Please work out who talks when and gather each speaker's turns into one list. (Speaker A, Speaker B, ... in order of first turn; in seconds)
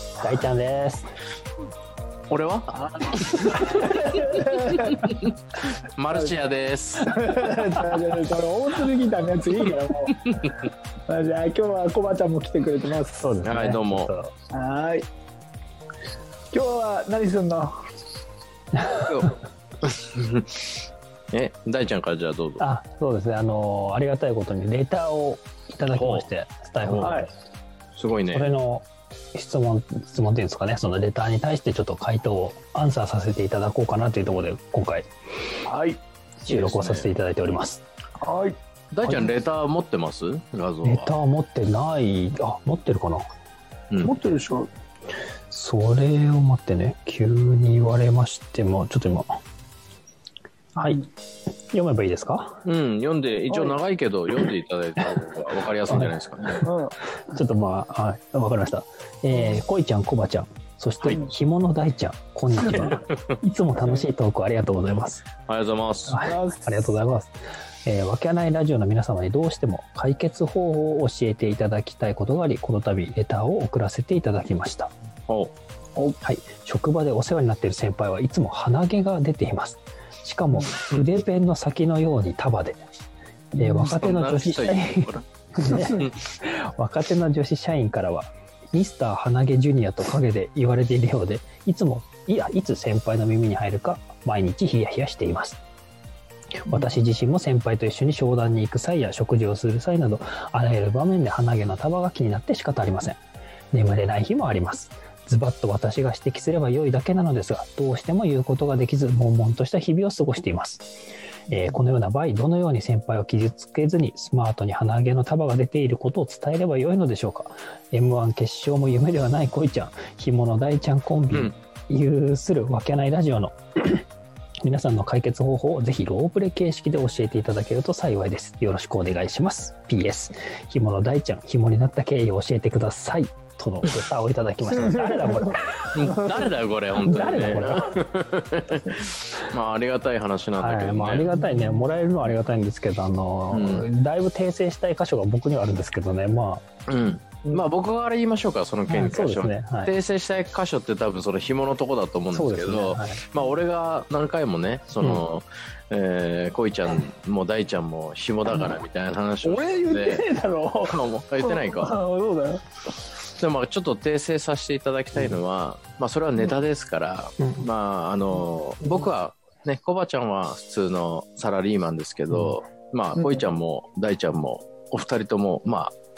Speaker A: 0.2-1.1, 13.2-14.3, 22.6-27.3, 28.3-35.1, 36.4-37.8, 39.0-39.4, 40.8-43.3, 45.5-49.3, 51.7-52.6, 55.9-56.7, 57.3-65.3, 66.1-67.3, 67.8-74.9, 76.2-82.8, 83.5-95.6, 96.7-103.2, 103.7-110.9, 111.5-124.0, 124.6-135.6, 137.1-137.8, 140.6-146.6, 148.9-149.9, 152.3-153.2, 167.4-167.7, 172.3-172.6
Speaker B: 2.3-3.8, 4.7-5.2, 6.0-7.1, 13.4-14.1, 19.0-19.3, 19.9-20.7, 21.3-22.6, 25.9-26.3, 26.9-27.2, 27.9-28.5, 36.5-37.1, 38.9-41.1, 52.6-56.7, 62.7-63.2, 65.5-66.2, 75.3-75.5, 83.9-85.2, 135.9-141.3, 143.5-143.9, 146.9-160.2, 160.8-162.0, 163.3-175.9
Speaker C: 3.6-5.0, 6.1-6.4, 7.0-10.2, 11.1-13.3, 14.5-15.1, 16.5-17.8, 27.0-27.3, 35.6-36.0, 38.2-38.5, 44.0-44.7, 50.8-51.1, 53.5-53.8, 56.6-56.9, 59.3-59.6, 61.0-61.3, 66.1-67.0, 83.6-83.9, 96.7-97.0, 111.5-111.8, 134.7-136.5, 137.1-137.9, 141.3-141.8, 159.4-162.6